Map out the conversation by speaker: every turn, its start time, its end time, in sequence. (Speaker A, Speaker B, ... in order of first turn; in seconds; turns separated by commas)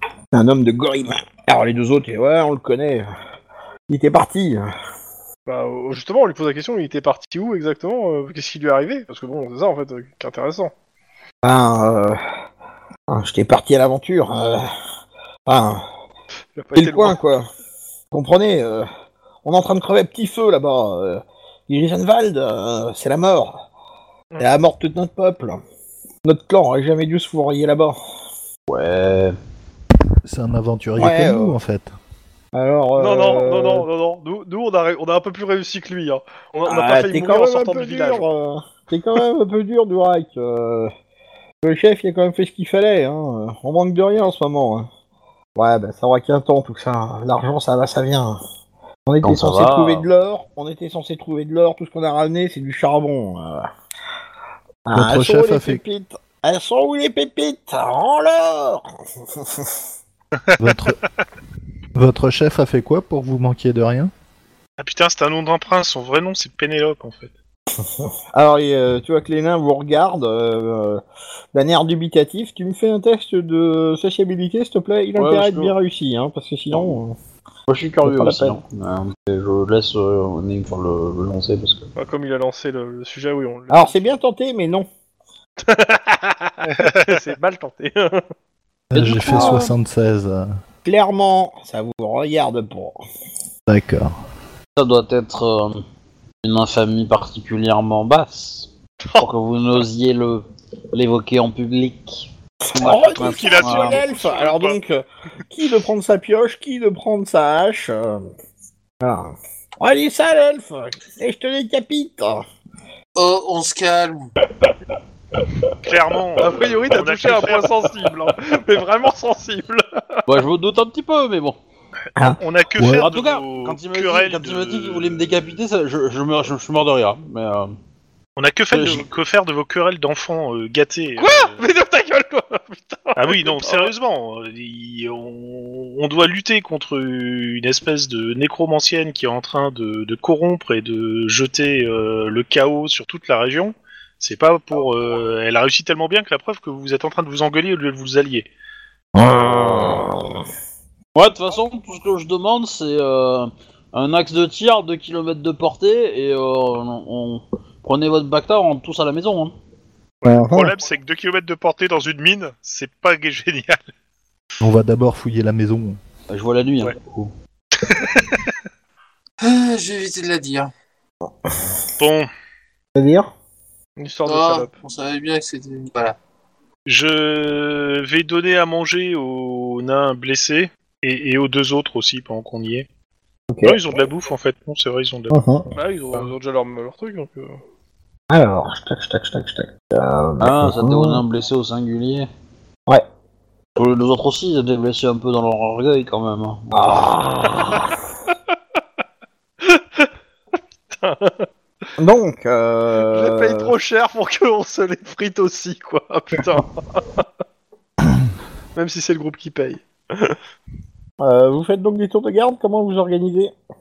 Speaker A: 0.3-3.1, Speaker A: 3.9-4.7, Speaker B: 5.5-10.7, Speaker A: 11.4-12.2, Speaker A: 13.1-14.7, Speaker A: 15.5-15.8, Speaker B: 16.6-17.2, Speaker A: 16.8-17.5, Speaker A: 18.1-18.9, Speaker A: 19.4-23.6, Speaker A: 24.4-25.6, Speaker A: 26.2-28.0, Speaker C: 28.7-29.4, Speaker D: 30.2-31.9, Speaker A: 31.0-31.6, Speaker A: 32.5-33.9, Speaker B: 33.0-38.2, Speaker A: 36.7-40.9, Speaker A: 41.6-44.9, Speaker A: 45.6-48.4, Speaker A: 49.1-53.7, Speaker C: 49.2-50.1, Speaker A: 54.9-59.8, Speaker D: 55.0-55.8, Speaker D: 60.6-61.0, Speaker D: 62.0-64.1, Speaker E: 64.8-67.3, Speaker A: 67.8-71.0, Speaker A: 71.5-77.2, Speaker C: 75.2-75.8, Speaker C: 77.7-81.9, Speaker A: 78.0-78.6, Speaker B: 82.0-84.1, Speaker A: 83.7-84.9, Speaker B: 85.6-88.3, Speaker E: 86.7-87.2, Speaker D: 88.9-90.6, Speaker C: 88.9-89.7, Speaker A: 89.3-89.7, Speaker A: 90.8-93.0, Speaker D: 93.7-94.2, Speaker C: 94.8-95.8, Speaker C: 96.4-104.0, Speaker A: 102.7-108.3, Speaker E: 102.9-104.8, Speaker A: 109.0-112.4, Speaker F: 113.2-114.3, Speaker E: 115.8-117.8, Speaker B: 116.4-120.2, Speaker C: 120.3-121.6, Speaker E: 122.4-125.3, Speaker D: 122.8-123.1, Speaker C: 122.9-127.7, Speaker E: 128.4-131.6, Speaker C: 128.7-129.1, Speaker B: 131.2-133.9, Speaker E: 133.2-148.5, Speaker A: 149.2-150.2, Speaker C: 151.2-159.5, Speaker E: 160.2-163.9, Speaker A: 160.3-160.8, Speaker D: 164.6-166.0, Speaker C: 166.3-167.3, Speaker E: 167.7-168.6, Speaker F: 169.4-170.7, Speaker E: 172.0-172.3, Speaker A: 172.9-173.3, Speaker B: 174.0-174.7, Speaker F: 174.3-176.2, Speaker E: 176.9-182.9, Speaker A: 183.5-183.8, Speaker E: 183.6-185.4, Speaker A: 185.3-185.7, Speaker B: 185.7-187.6, Speaker A: 188.3-191.2, Speaker C: 190.4-192.3, Speaker C: 193.8-197.1, Speaker A: 196.7-197.9, Speaker B: 199.6-200.1, Speaker B: 200.9-201.5, Speaker A: 202.0-203.7, Speaker B: 203.0-207.2, Speaker B: 208.8-210.4, Speaker A: 211.2-213.5